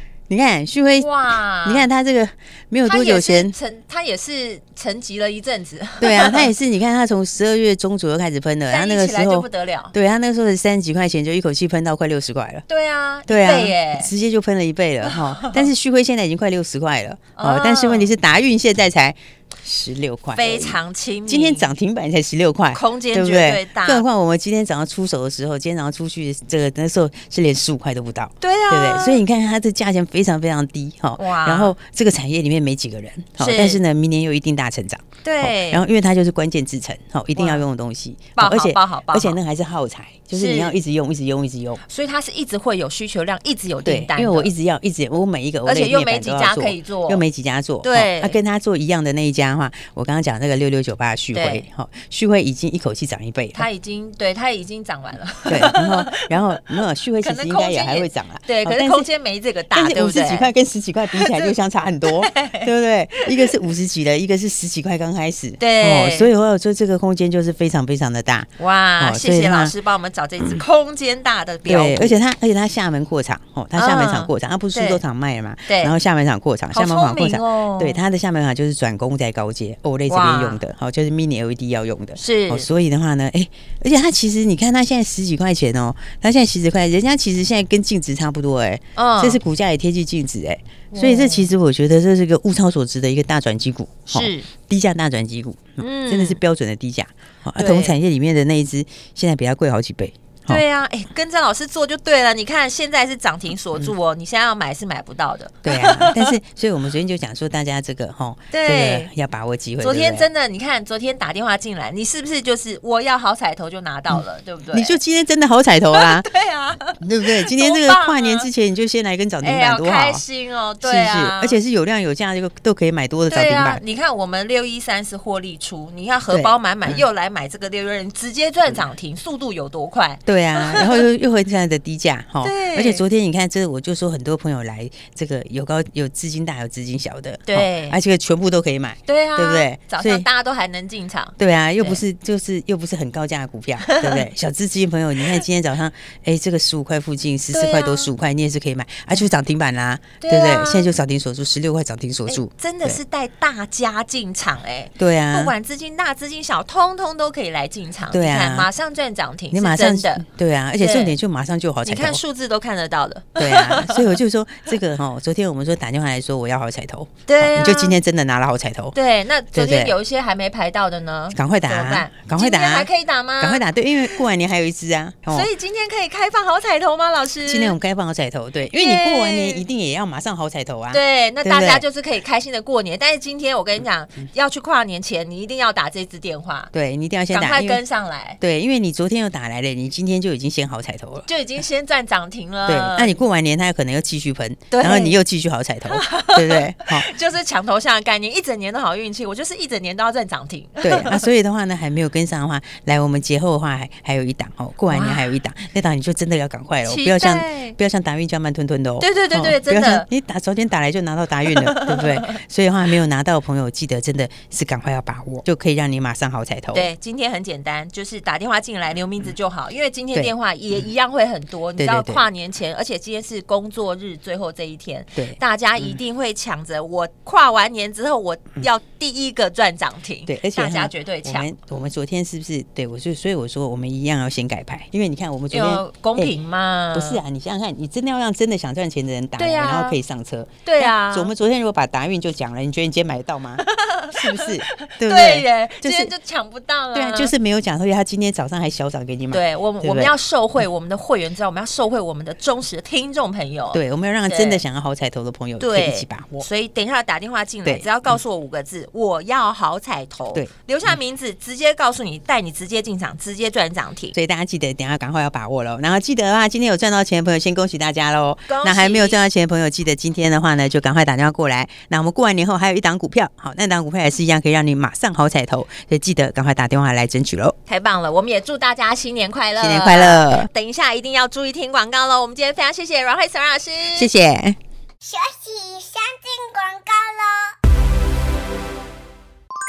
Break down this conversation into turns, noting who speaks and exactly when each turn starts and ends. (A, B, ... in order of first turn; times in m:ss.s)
0:00.3-0:01.1 A
0:01.0-0:01.9 B
0:01.6-0:03.6 A
0:02.8-0:06.5 B
0:06.0-0:12.6 A
0:08.7-0:09.9 B
0:12.7-0:14.1 B
0:13.3-0:41.8 A
0:15.0-0:15.7 B
0:17.4-0:18.1 B
0:20.3-0:21.7 B
0:22.7-0:24.0 B
0:28.4-0:29.2 B
0:31.2-0:31.8 B
0:33.4-0:33.8 B
0:35.2-0:35.8 B
0:37.4-0:37.6 B
0:38.4-0:39.4 B
0:40.3-0:40.8 B
0:41.8-0:44.5 B
0:43.8-0:53.7 A
0:45.7-0:47.2 B
0:47.8-0:48.4 B
0:51.3-0:51.7 B
0:53.6-1:00.5 B
0:55.5-0:59.1 A
0:59.7-1:09.7 A
1:01.1-1:03.6 B
1:05.6-1:06.3 B
1:08.6-1:12.2 B
1:11.7-1:40.6 A
1:13.8-1:15.0 B
1:15.7-1:16.0 B
1:16.7-1:18.0 B
1:20.1-1:20.6 B
1:22.2-1:22.7 B
1:29.0-1:29.4 B
1:30.9-1:31.5 B
1:34.1-1:34.5 B
1:35.8-1:36.4 B
1:37.6-1:38.0 B
1:40.5-1:46.4 B
1:45.6-1:50.3 A
1:48.5-1:49.1 B
1:49.8-1:55.0 B
1:54.7-1:56.3 A
1:55.9-1:58.5 B
1:57.0-2:00.2 A
1:59.4-2:01.6 B
2:00.8-2:03.8 A
2:03.3-2:11.1 B
2:06.3-2:07.0 A
2:10.3-2:20.3 A
2:12.4-2:13.0 B
2:17.5-2:18.0 B
2:19.1-2:22.0 B
2:21.4-2:33.0 A
2:23.9-2:24.2 B
2:27.5-2:28.1 B
2:30.2-2:30.9 B
2:32.3-2:40.2 B
2:35.0-2:35.5 A
2:38.1-2:38.7 A
2:39.5-2:42.2 A
2:40.8-2:41.2 B
2:41.8-2:44.2 B
2:43.4-2:49.0 A
2:47.3-2:48.0 B
2:48.9-2:53.6 B
2:49.5-2:50.0 A
2:51.3-2:52.9 A
2:53.4-2:55.5 A
2:55.3-2:57.8 B
2:57.5-3:01.8 A
2:58.7-2:59.6 B
3:00.9-3:06.7 B
3:06.7-3:07.8 A
3:07.3-3:08.4 B
3:08.4-3:11.3 A
3:11.3-3:13.2 B
3:12.7-3:17.1 A
3:14.7-3:15.2 B
3:15.9-3:21.2 B
3:20.8-3:36.9 A
3:24.9-3:25.3 B
3:26.8-3:27.8 B
3:29.0-3:30.1 B
3:31.5-3:32.4 B
3:36.7-3:51.5 B
3:41.8-3:42.2 A
3:45.2-3:46.0 A
3:50.3-3:56.3 A
3:55.5-3:57.2 B
3:56.9-4:06.1 A
3:59.4-4:00.0 B
4:00.6-4:01.3 B
4:03.6-4:07.4 B
4:06.9-4:10.1 A
4:09.3-4:14.6 B
4:13.7-4:16.5 A
4:15.6-4:24.2 B
4:17.6-4:18.1 A
4:24.1-4:37.6 A
4:28.5-4:29.2 B
4:37.7-4:44.1 B
4:39.6-4:40.5 A
4:44.0-4:44.6 A
4:45.0-4:47.5 C